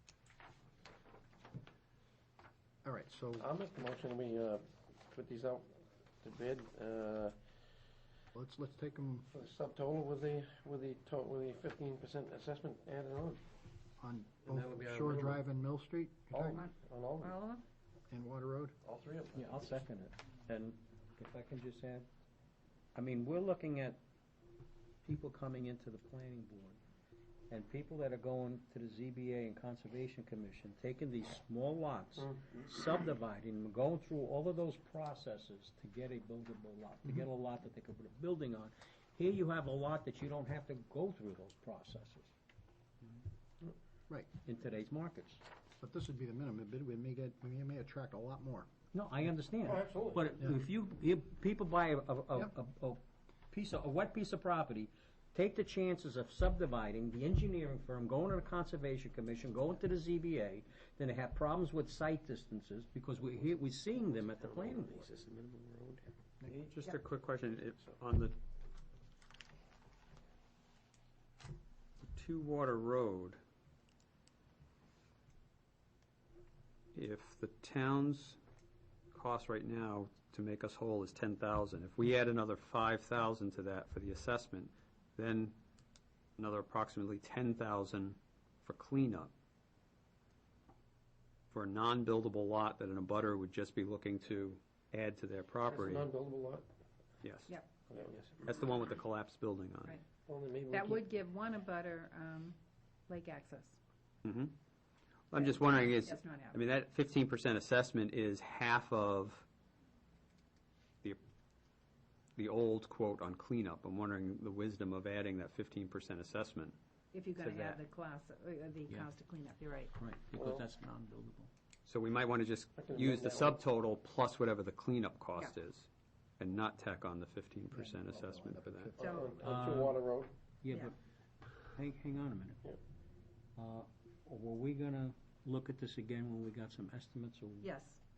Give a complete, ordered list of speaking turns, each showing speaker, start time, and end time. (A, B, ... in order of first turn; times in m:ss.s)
0:02.8-0:03.5 A
0:03.4-0:07.4 B
0:08.3-0:09.3 A
0:09.3-0:13.4 B
0:14.0-0:16.6 A
0:14.4-0:15.4 B
0:16.3-0:17.3 B
0:16.5-0:17.6 C
0:18.1-0:18.8 A
0:18.8-0:19.7 B
0:19.3-0:22.1 D
0:22.9-0:24.0 D
0:25.0-0:26.8 D
0:27.5-0:42.3 D
0:44.4-0:45.4 D
0:45.8-0:48.7 A
0:48.9-1:05.0 D
0:49.6-0:50.3 B
1:04.4-1:06.6 B
1:06.6-1:08.3 E
1:12.0-1:13.4 E
1:16.9-1:18.4 E
1:19.1-1:25.6 E
1:26.4-1:29.3 E
1:31.5-1:36.1 E
1:35.7-1:36.6 B
1:37.2-1:37.5 E
1:37.9-1:38.4 B
1:38.4-1:40.0 E
1:40.2-1:41.1 B
1:40.7-1:42.6 C
1:43.1-1:43.8 C
1:44.2-1:44.5 E
1:45.3-1:49.4 E
1:45.3-1:46.6 C
1:52.4-1:56.7 E
1:57.1-1:59.9 C
1:57.4-1:57.8 E
1:59.9-2:01.5 D
2:00.3-2:00.6 B
2:01.8-2:08.9 E
2:02.8-2:03.6 B
2:07.7-2:09.2 A
2:09.0-2:10.3 B
2:09.0-2:09.4 C
2:09.4-2:10.0 D
2:10.6-2:10.9 D
2:11.7-2:12.6 D
2:13.6-2:17.7 D
2:17.6-2:18.0 C